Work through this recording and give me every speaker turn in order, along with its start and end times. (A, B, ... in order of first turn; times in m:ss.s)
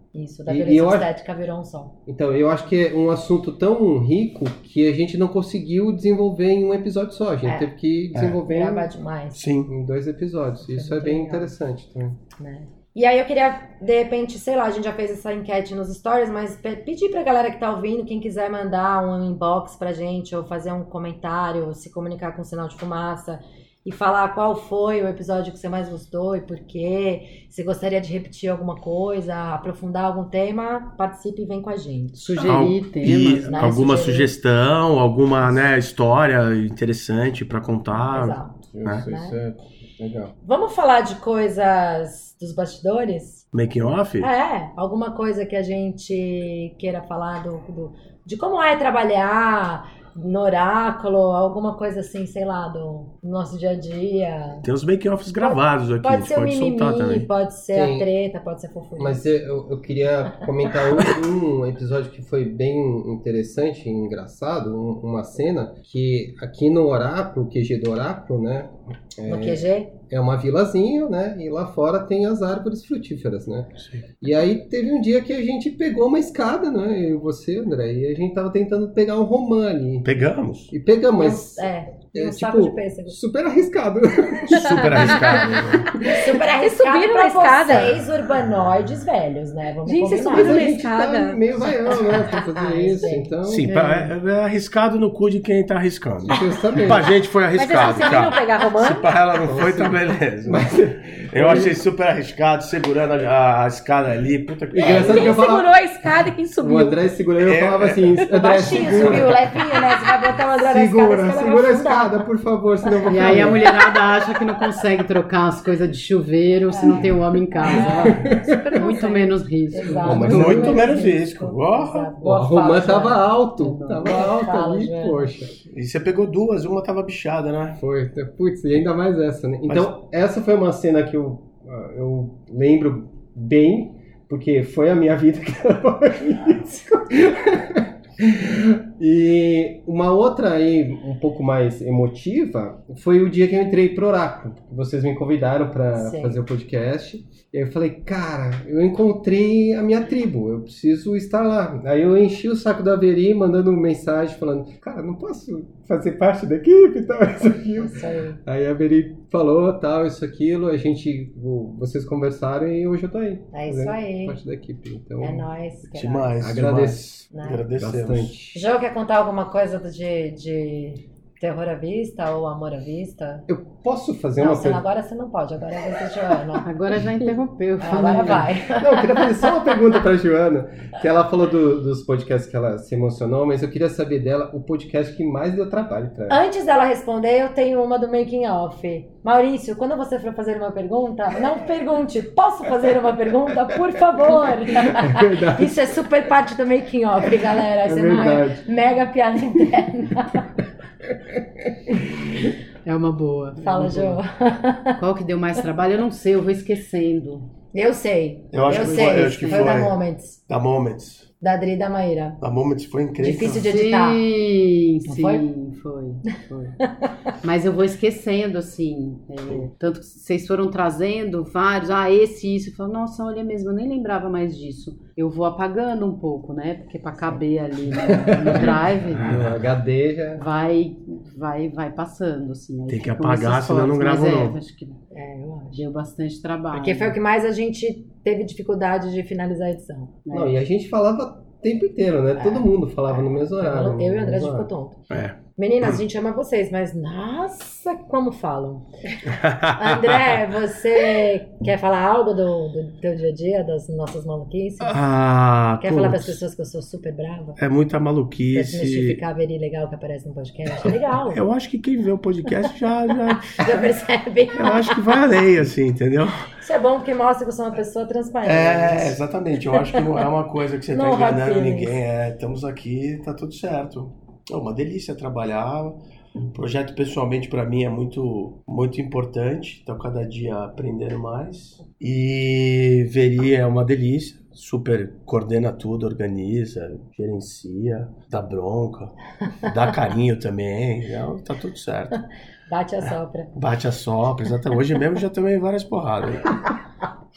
0:00.1-0:01.9 A
0:00.5-0:01.1 B
0:02.1-0:08.9 B
0:07.4-0:07.7 A
0:08.1-0:08.4 C
0:08.4-0:09.5 A
0:09.3-0:09.7 C
0:09.7-0:12.2 B
0:10.6-0:11.5 A
0:12.4-0:32.4 A
0:32.2-0:33.6 D
0:32.4-0:39.1 C
0:33.5-0:34.3 A
0:37.9-0:39.4 A
0:38.7-0:40.3 B
0:40.4-0:43.5 A
0:43.5-0:44.3 C
0:44.2-0:54.6 A
0:54.6-0:57.3 C
0:55.4-0:59.4 A
0:57.7-0:58.1 B
0:59.0-1:20.1 B
1:09.3-1:09.9 A
1:13.8-1:14.0 C
1:20.0-1:20.7 C
1:20.7-1:25.8 B
1:21.2-1:23.2 A
1:24.5-1:25.8 C
1:24.5-1:27.9 E
1:26.0-1:30.7 A
1:29.8-1:31.4 E
1:30.2-1:34.1 B
1:31.9-1:33.3 A
1:33.4-1:45.4 C
1:36.2-1:37.1 B
1:37.5-1:39.1 E
1:39.4-1:41.8 B
1:44.7-1:45.7 B
1:44.8-1:47.1 E
1:46.6-1:49.5 B
1:47.4-1:48.1 C
1:48.3-1:52.2 A
1:50.6-1:54.0 B
1:53.1-2:00.6 D
1:56.7-1:57.1 A
1:57.6-1:58.4 A
1:57.6-1:58.8 B
1:58.4-1:59.3 E
1:59.7-2:05.3 A
1:59.8-2:01.0 B
2:00.2-2:02.1 C
2:02.2-2:05.6 B
2:05.7-2:07.8 C
2:07.8-2:45.5 B
2:09.7-2:09.9 C
2:26.0-2:26.4 A
2:37.8-2:38.4 A
2:43.5-2:44.4 A
2:45.2-2:46.6 A
2:45.9-2:48.3 C
2:46.4-2:47.1 B
2:47.3-2:47.6 A
2:47.7-2:48.6 B
2:48.5-2:53.5 A
2:53.5-2:54.8 B
2:54.4-2:56.7 A
2:56.6-2:58.5 D
2:57.8-2:59.5 A
2:58.7-3:06.4 B
3:06.3-3:20.6 A
3:14.9-3:15.9 B
3:17.8-3:18.6 B
3:22.8-3:24.2 D
3:23.6-3:25.0 A
3:24.9-3:27.5 D
3:27.7-3:30.4 A
3:28.5-3:31.3 C
3:28.7-3:29.7 D
3:31.4-3:32.4 A
3:32.4-3:33.7 C
3:33.2-3:34.2 A
3:33.2-3:36.8 D
3:35.0-3:35.4 A
3:37.4-3:49.4 D
3:48.0-3:50.4 B
3:49.2-3:49.6 C
3:50.4-3:55.0 D
3:52.9-3:54.6 C
3:55.1-3:55.8 A
3:55.7-3:57.2 D
3:56.7-4:00.3 A
4:00.2-4:00.5 D
4:00.3-4:04.7 B
4:02.4-4:05.0 A
4:05.1-4:05.4 C
4:05.6-4:08.9 A
4:09.3-4:10.2 C
4:09.6-4:15.1 A
4:14.8-4:16.4 C
4:15.8-4:17.6 A
4:17.6-4:19.2 C
4:18.5-4:21.4 A
4:21.3-4:23.8 C
4:23.5-4:25.2 A
4:24.5-4:26.5 C
4:26.6-4:29.2 A
4:28.4-4:52.2 C
4:30.9-4:32.0 A
4:52.7-4:53.5 A
4:53.5-4:56.6 C